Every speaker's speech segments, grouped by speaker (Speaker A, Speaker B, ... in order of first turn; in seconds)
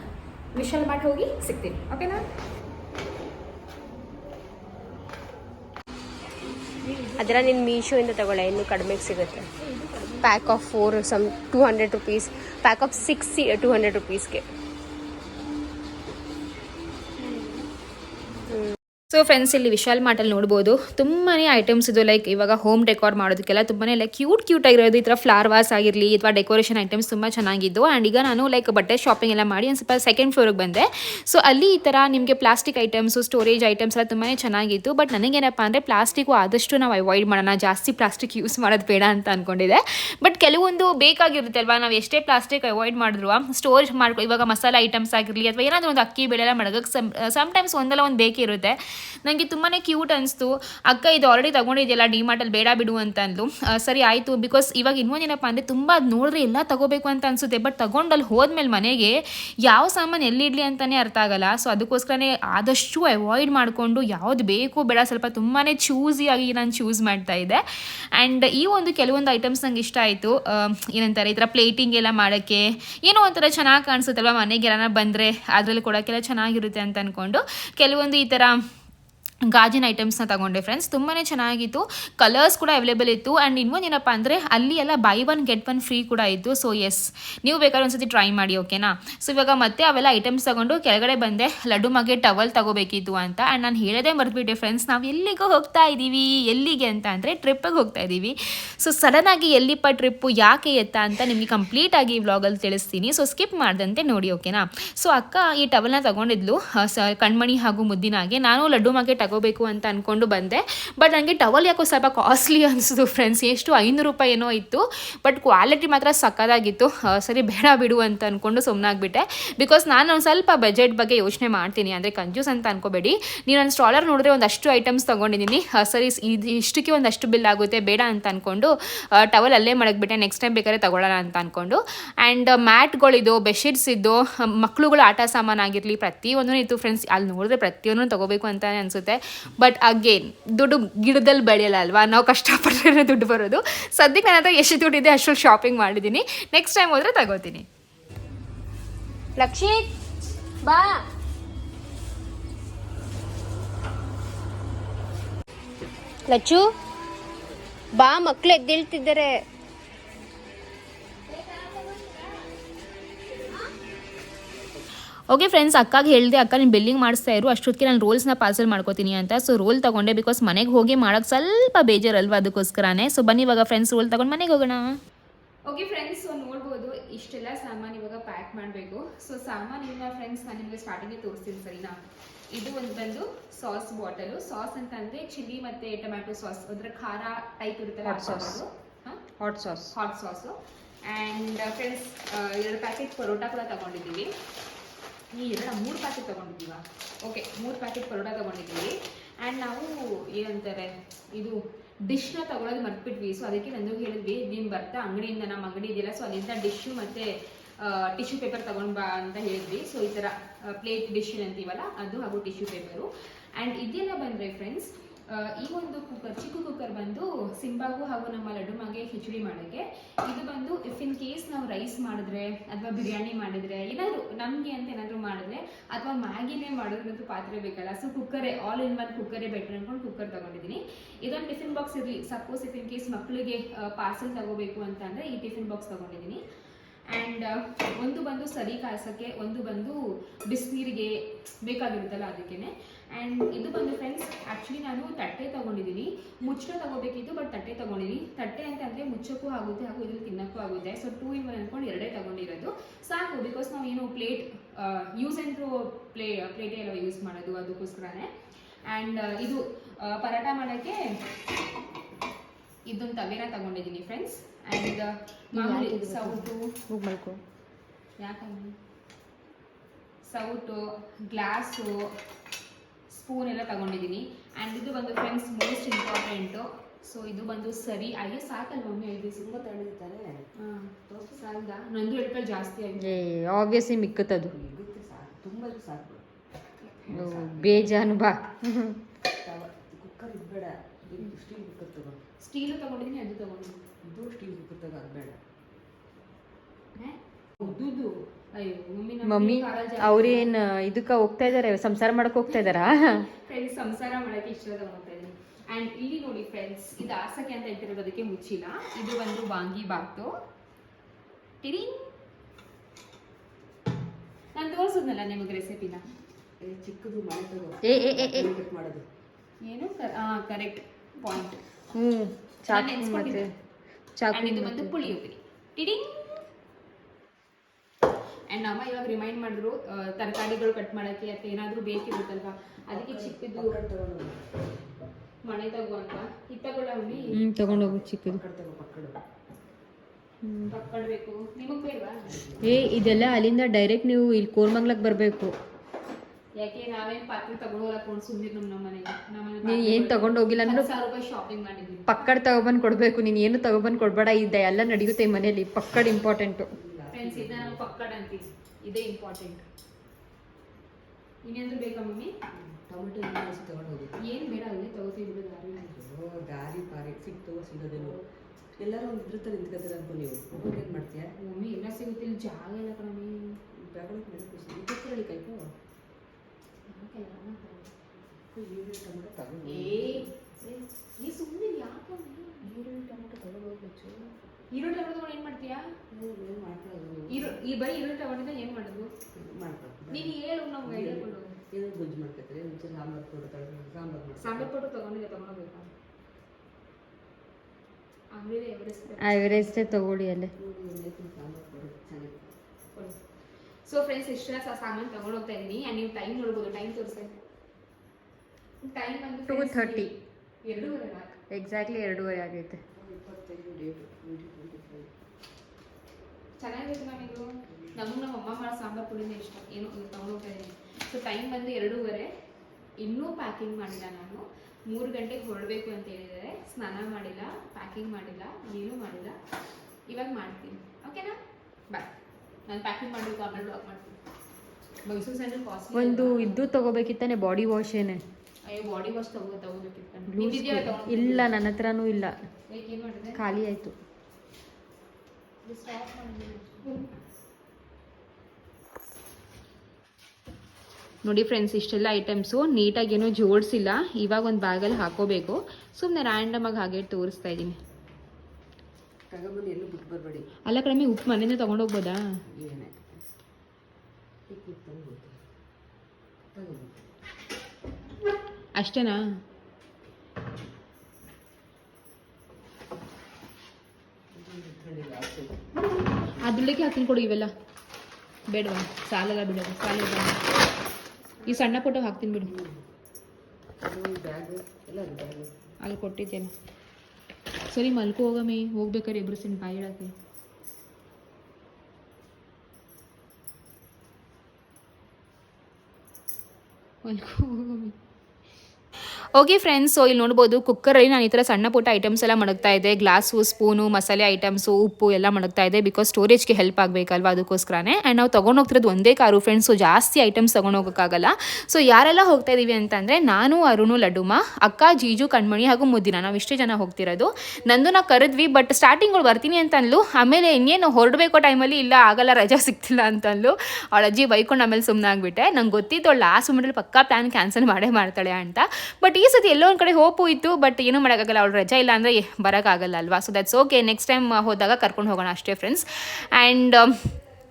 Speaker A: 0.5-2.2, 6.9-7.2, 9.6-10.4, 17.2-17.6, 19.1-67.6, 68.1-78.6, 79.5-147.7, 165.3-175.0, 175.7-181.9, 182.5-189.2, 189.9-194.3, 195.3-207.3, 207.8-236.4, 237.1-258.3, 258.9-261.0, 262.9-266.7, 268.2-268.7, 270.2-272.1, 273.1-279.6, 280.6-283.2, 292.4-293.8, 296.9-300.5, 302.6-310.3, 311.6-312.1, 314.5-316.0, 319.6-321.6, 322.7-323.4, 324.3-326.5, 328.5-333.8, 335.4-337.4, 340.7-342.4, 346.6-352.2, 357.1-359.6, 361.4-362.3, 364.2-365.8, 367.9-368.2, 371.4-373.6, 376.9-377.9, 379.6-380.3, 381.2-382.8, 384.7-385.8, 387.3-389.1, 390.1-391.5, 394.4-395.9, 398.3-399.9, 403.8-407.3, 408.8-411.4, 416.6-422.3, 423.0-429.4, 430.1-431.4, 432.7-434.2, 435.0-436.6, 438.6-441.5, 442.7-443.4, 445.6-447.1, 451.2-457.8, 460.6-462.2, 468.8-469.2, 476.3-477.5, 478.5-480.4, 481.4-482.5, 485.8-486.5, 487.7-490.1, 497.0-497.9, 499.4-536.9
Speaker B: 7.1-9.5, 10.2-14.4, 149.3-149.9, 150.6-151.0, 156.3-156.7, 157.9-159.4
Speaker C: 188.0-188.6, 189.4-189.9, 265.5-267.4, 283.0-284.5, 287.1-289.0, 299.2-303.3, 317.8-318.5, 321.9-323.5, 324.1-325.1, 337.3-338.4, 340.4-340.7, 342.6-345.5, 349.6-350.9, 352.1-356.7, 399.2-400.5, 409.5-410.1, 411.5-412.8, 435.9-438.2, 440.3-442.3, 443.4-443.9
Speaker D: 279.4-280.4, 281.1-281.4, 284.4-286.2, 287.0-288.0, 289.4-292.2, 294.0-295.4, 316.6-319.1, 332.9-334.7, 337.1-339.2, 342.2-342.9, 356.8-357.9, 362.5-364.1, 365.8-368.2, 368.8-371.3, 373.7-375.7, 378.5-380.3, 382.7-384.3, 386.1-387.6, 389.3-394.7, 400.6-402.5, 412.9-415.1, 459.3-460.5, 462.5-463.4, 464.5-465.4, 466.5-467.1, 474.3-476.6, 482.4-482.8, 483.8-485.5